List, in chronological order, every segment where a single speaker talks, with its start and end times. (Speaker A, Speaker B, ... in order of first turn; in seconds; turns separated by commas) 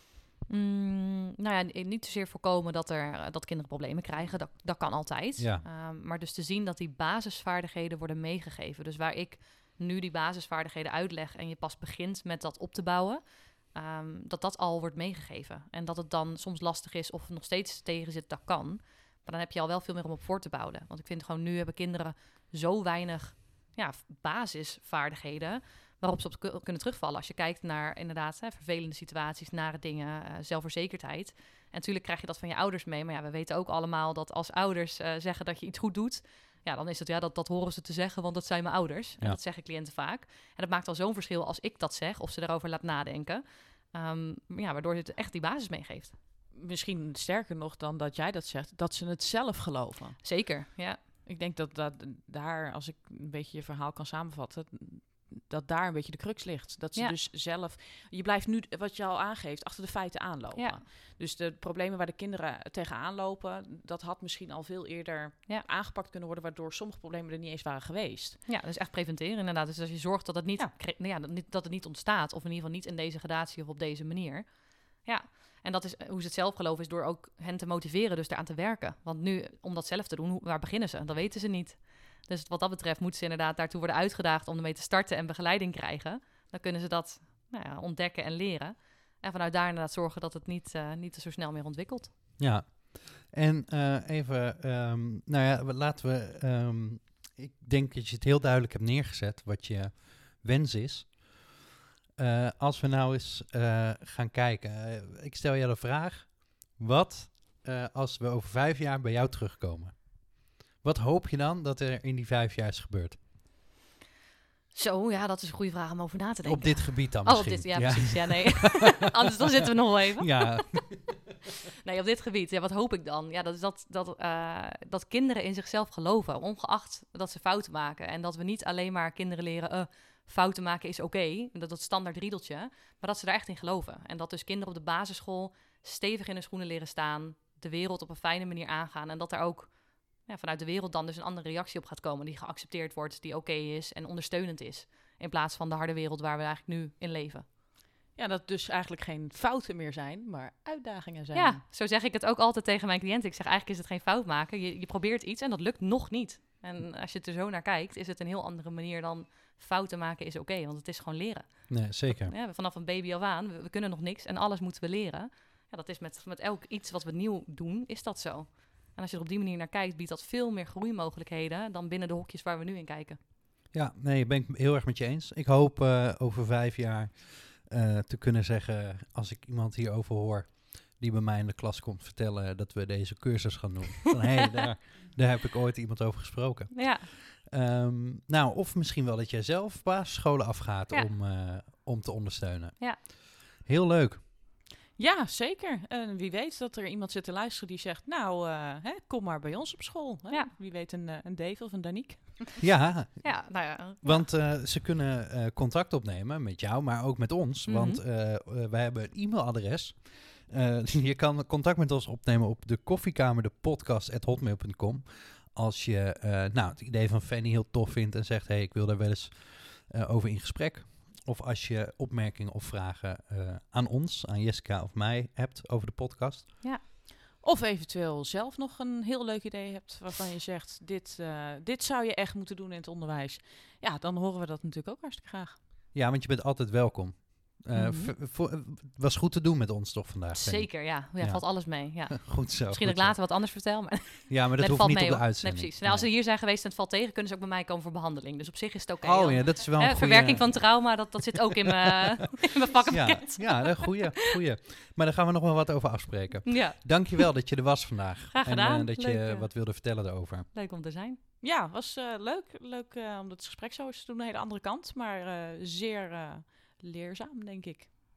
Speaker A: 0.5-46.2, Speaker B: 5.4-5.7, Speaker C: 46.5-50.6, Speaker A: 50.2-51.0, Speaker C: 51.3-68.4, Speaker A: 68.5-92.1, Speaker B: 92.4-101.5, Speaker B: 102.2-113.2, Speaker A: 114.7-120.7, Speaker B: 116.5-119.4, Speaker B: 120.2-121.3, Speaker A: 121.8-147.5, Speaker C: 148.2-151.6, Speaker A: 151.3-173.2, Speaker B: 161.7-162.3, Speaker B: 173.7-194.2, Speaker A: 186.7-187.1, Speaker C: 195.0-202.6, Speaker B: 202.6-226.6, Speaker A: 203.2-204.3, Speaker A: 207.7-208.0, Speaker C: 227.4-235.6, Speaker B: 235.9-243.2, Speaker A: 237.7-238.1, Speaker A: 240.3-254.3, Speaker B: 244.3-246.1, Speaker B: 249.0-251.1, Speaker B: 252.9-260.5, Speaker A: 256.5-257.2, Speaker A: 258.3-259.5, Speaker A: 260.5-261.2, Speaker C: 261.4-267.9